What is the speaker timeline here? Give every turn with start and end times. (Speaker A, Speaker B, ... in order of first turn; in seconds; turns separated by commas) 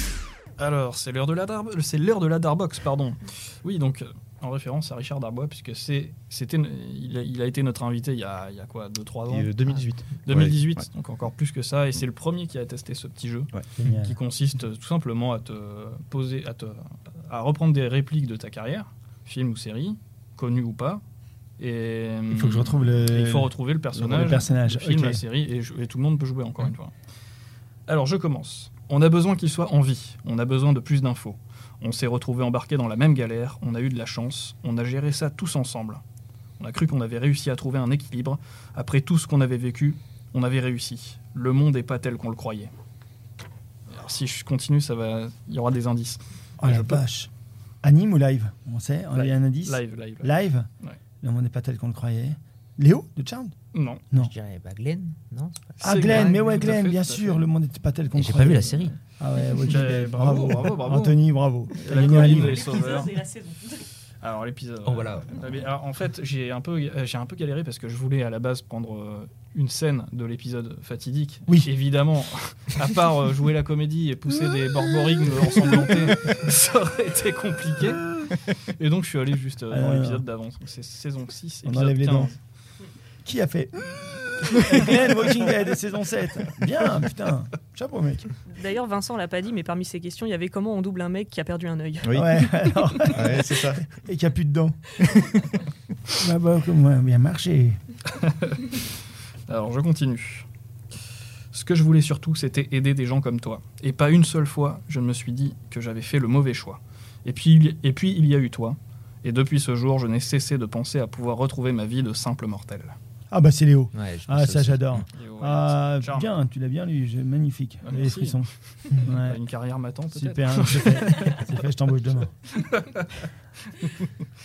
Speaker A: 0.6-9.6, Speaker B: 9.3-10.9, Speaker A: 10.2-21.0, Speaker C: 13.8-14.2, Speaker A: 21.6-26.9, Speaker C: 22.3-25.2, Speaker A: 27.9-36.0, Speaker A: 36.6-42.7, Speaker A: 43.9-47.0, Speaker C: 46.6-47.3, Speaker C: 47.8-50.7, Speaker A: 49.1-51.0, Speaker C: 51.2-53.5, Speaker A: 53.7-54.0, Speaker D: 54.1-56.4, Speaker A: 55.8-57.5, Speaker C: 55.8-62.7, Speaker D: 58.1-59.0, Speaker A: 59.6-63.2, Speaker E: 62.1-63.9, Speaker A: 64.2-82.4, Speaker D: 64.8-65.7, Speaker C: 79.7-80.2, Speaker C: 81.6-82.3, Speaker C: 83.2-88.3, Speaker E: 88.5-92.2, Speaker B: 92.0-92.4, Speaker C: 92.1-95.2, Speaker B: 93.0-93.9, Speaker C: 96.2-97.8, Speaker A: 98.2-98.8, Speaker A: 99.5-100.5, Speaker A: 101.5-113.0, Speaker C: 113.3-119.4, Speaker D: 113.9-115.1, Speaker A: 115.2-116.3, Speaker A: 117.8-121.5, Speaker C: 120.1-122.3, Speaker A: 122.5-123.2, Speaker A: 123.8-124.1